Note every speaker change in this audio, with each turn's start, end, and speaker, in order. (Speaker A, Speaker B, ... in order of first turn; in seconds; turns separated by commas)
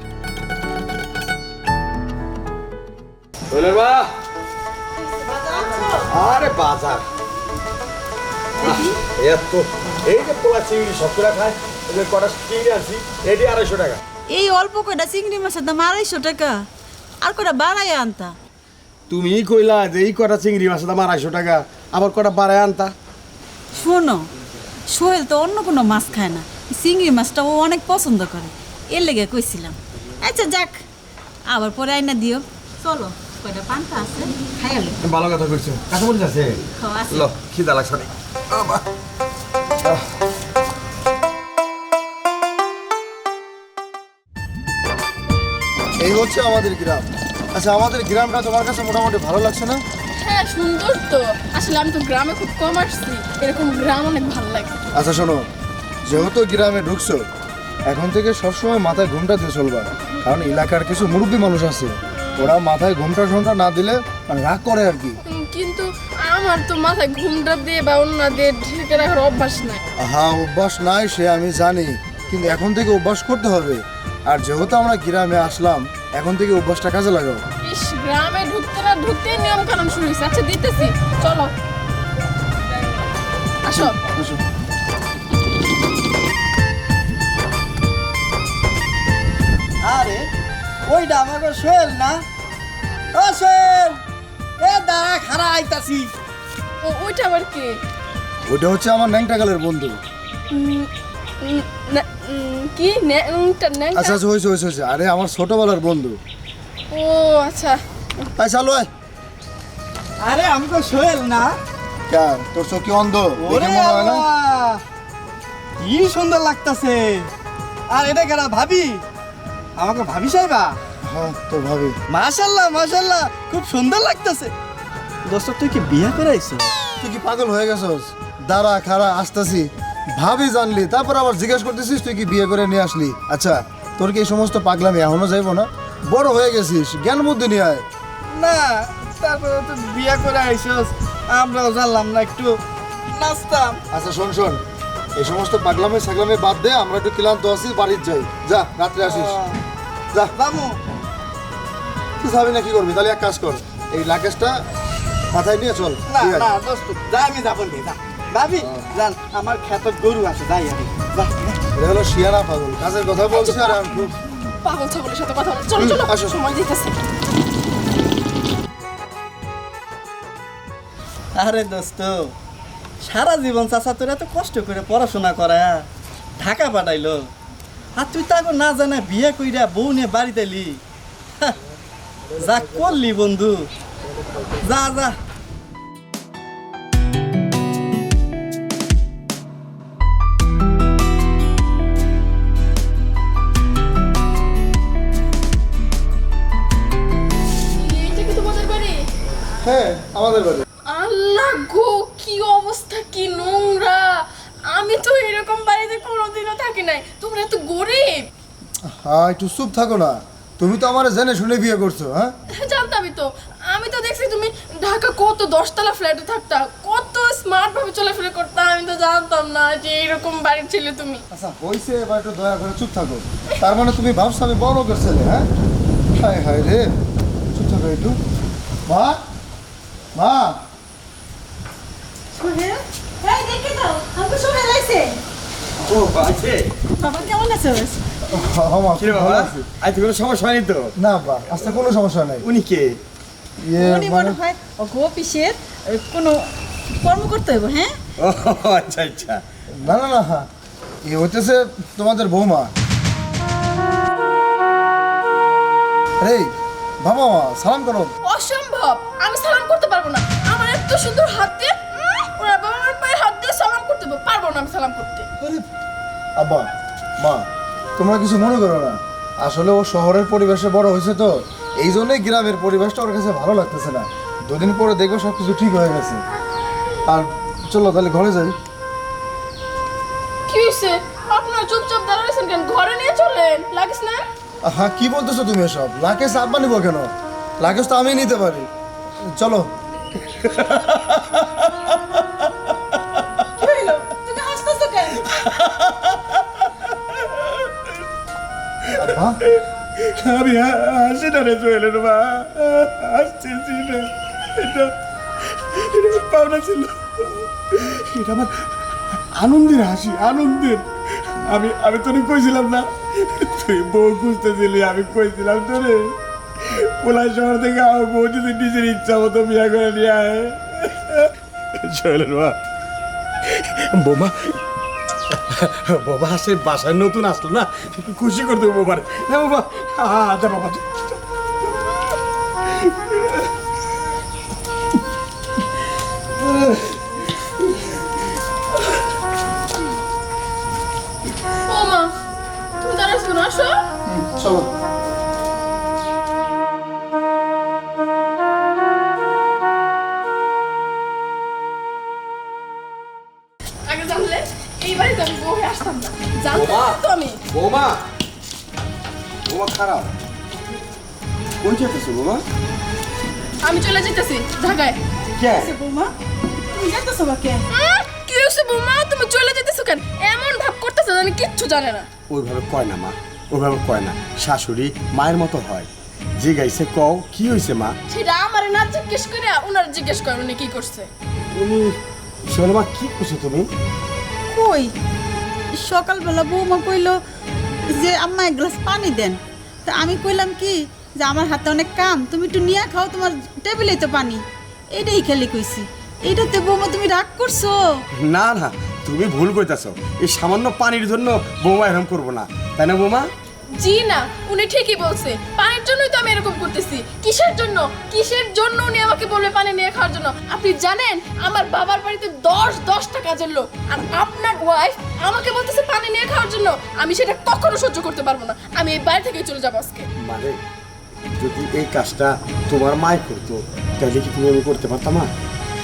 Speaker A: 3.5-4.1, Speaker B: 5.0-6.1, Speaker A: 5.9-7.0, Speaker B: 8.6-9.0, Speaker A: 8.6-14.0, Speaker B: 14.3-16.6, Speaker B: 17.2-18.3, Speaker A: 19.1-22.9, Speaker B: 23.8-24.3, Speaker B: 24.9-30.8, Speaker B: 31.5-35.0, Speaker A: 35.0-38.8, Speaker B: 36.8-37.3, Speaker C: 46.0-49.8, Speaker D: 50.2-54.8, Speaker C: 54.9-55.5, Speaker C: 56.0-57.2, Speaker C: 57.9-65.2, Speaker D: 62.3-62.5, Speaker D: 65.2-69.8, Speaker C: 70.0-77.4, Speaker D: 77.6-81.5, Speaker D: 83.7-83.9, Speaker C: 83.7-84.4, Speaker E: 89.8-90.2, Speaker E: 90.9-92.2, Speaker E: 93.2-94.0, Speaker E: 94.6-96.1, Speaker D: 96.8-97.7, Speaker C: 98.5-100.0, Speaker D: 100.5-100.9, Speaker D: 101.4-104.2, Speaker C: 103.9-106.2, Speaker D: 106.9-107.8, Speaker C: 108.4-108.9, Speaker E: 110.2-111.5, Speaker C: 112.1-114.2, Speaker E: 113.4-114.8, Speaker E: 115.8-117.3, Speaker E: 117.9-119.0, Speaker E: 119.8-120.8, Speaker C: 121.0-122.0, Speaker E: 122.1-124.5, Speaker E: 125.2-126.6, Speaker C: 127.0-137.8, Speaker E: 138.3-142.6, Speaker E: 143.1-143.8, Speaker C: 143.9-144.6, Speaker C: 145.2-149.3, Speaker E: 149.0-149.6, Speaker E: 150.3-150.8, Speaker C: 152.2-154.6, Speaker C: 155.3-156.5, Speaker E: 156.1-161.6, Speaker C: 161.7-164.2, Speaker D: 163.3-163.8, Speaker D: 164.6-167.0, Speaker C: 165.8-166.4, Speaker E: 171.3-172.3, Speaker E: 173.0-175.8, Speaker E: 176.4-177.3, Speaker E: 177.9-180.8, Speaker E: 182.3-183.7, Speaker E: 184.4-185.2, Speaker D: 197.7-199.0, Speaker C: 199.6-200.6, Speaker D: 200.9-208.3, Speaker C: 208.9-212.3, Speaker D: 212.5-221.2, Speaker C: 221.3-225.5, Speaker C: 226.2-226.9, Speaker C: 227.5-228.2, Speaker C: 228.9-229.2, Speaker C: 230.1-230.6, Speaker B: 232.3-235.2, Speaker A: 235.8-236.7, Speaker B: 236.9-238.0, Speaker C: 238.2-239.7, Speaker A: 239.0-240.9, Speaker C: 241.0-242.4, Speaker A: 242.4-243.0, Speaker C: 243.6-244.4, Speaker B: 243.7-246.4, Speaker B: 247.0-247.9, Speaker A: 248.2-249.4, Speaker C: 249.8-250.5, Speaker C: 251.1-252.7, Speaker C: 256.2-256.5, Speaker C: 257.0-258.1, Speaker D: 258.2-265.2, Speaker C: 265.4-265.6, Speaker C: 266.4-266.7, Speaker C: 267.2-267.4, Speaker C: 268.0-276.2, Speaker C: 277.1-278.5, Speaker D: 280.5-284.2, Speaker C: 284.6-288.7, Speaker C: 289.3-289.7, Speaker A: 290.2-291.7, Speaker B: 293.6-295.4, Speaker A: 295.4-296.2, Speaker C: 298.9-299.4, Speaker A: 300.0-304.9, Speaker A: 305.4-322.6, Speaker A: 323.4-324.6, Speaker A: 325.3-331.2, Speaker D: 341.7-342.1, Speaker D: 342.8-343.9, Speaker C: 344.1-344.7, Speaker D: 353.9-357.4, Speaker A: 356.5-358.0, Speaker A: 359.4-360.1, Speaker A: 361.6-362.4, Speaker D: 363.6-365.0, Speaker A: 365.3-365.7, Speaker B: 365.5-367.6, Speaker D: 367.7-372.1, Speaker A: 372.3-377.9, Speaker D: 378.1-381.1, Speaker A: 381.5-381.9, Speaker A: 382.5-383.7, Speaker B: 384.5-384.9, Speaker B: 385.8-387.2, Speaker B: 387.9-394.4, Speaker B: 394.9-397.9, Speaker A: 398.2-403.3, Speaker D: 403.8-420.1, Speaker A: 420.2-420.6, Speaker A: 421.3-425.3